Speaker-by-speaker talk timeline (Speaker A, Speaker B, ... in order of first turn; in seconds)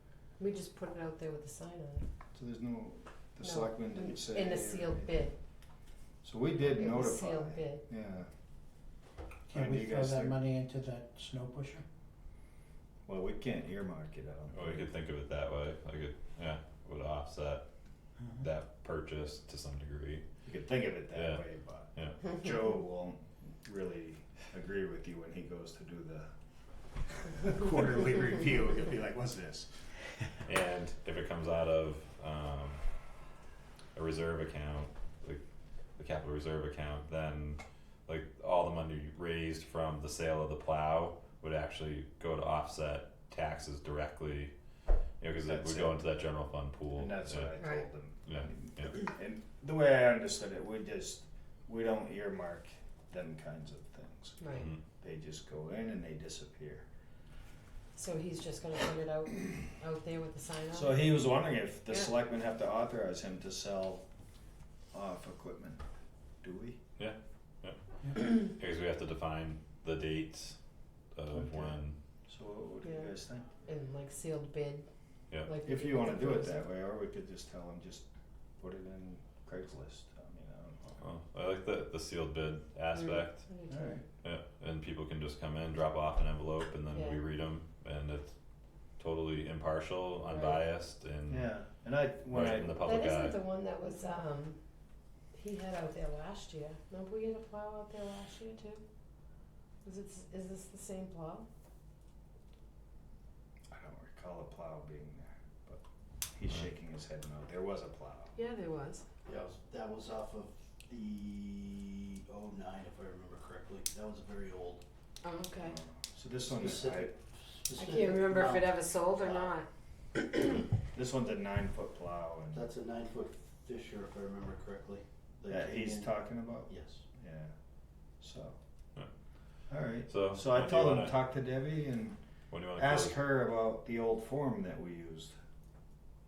Speaker A: 0.4-2.0, 3.4-5.3, 6.7-7.8, 47.6-47.9, 54.4-54.7, 58.0-61.1, 72.8-73.1, 73.7-74.9, 75.4-76.6, 83.0-84.0, 86.9-87.2, 90.3-90.6, 92.8-94.6, 95.3-98.8, 99.8-101.5, 108.4-109.0, 115.2-115.8, 117.8-119.7, 120.2-120.6
Speaker B: 2.3-5.3, 6.2-8.3, 9.5-10.4, 13.1-14.9, 20.4-26.3, 27.3-30.2, 45.5-46.0, 46.9-56.9, 60.7-64.0, 64.9-65.8, 66.4-66.8, 71.3-73.5, 75.7-78.0, 78.6-81.0, 83.7-84.0, 91.3-92.8, 103.7-105.8, 106.3-108.3, 115.6-117.2, 120.9-122.6, 125.5-127.5, 128.2-128.6, 129.7-132.2, 132.8-135.3
Speaker C: 9.5-11.8
Speaker D: 14.5-17.6, 18.3-20.2, 21.1-21.4, 21.9-22.2, 30.4-32.8, 34.0-35.4, 36.0-44.5, 45.2-47.5, 48.3-49.0, 54.5-54.8, 67.0-70.6, 71.1-72.0, 81.0-83.5, 84.2-88.3, 89.0-91.5, 92.3-93.4, 130.1-131.2, 132.5-133.2
Speaker E: 109.3-114.8, 116.5-119.5, 122.5-127.0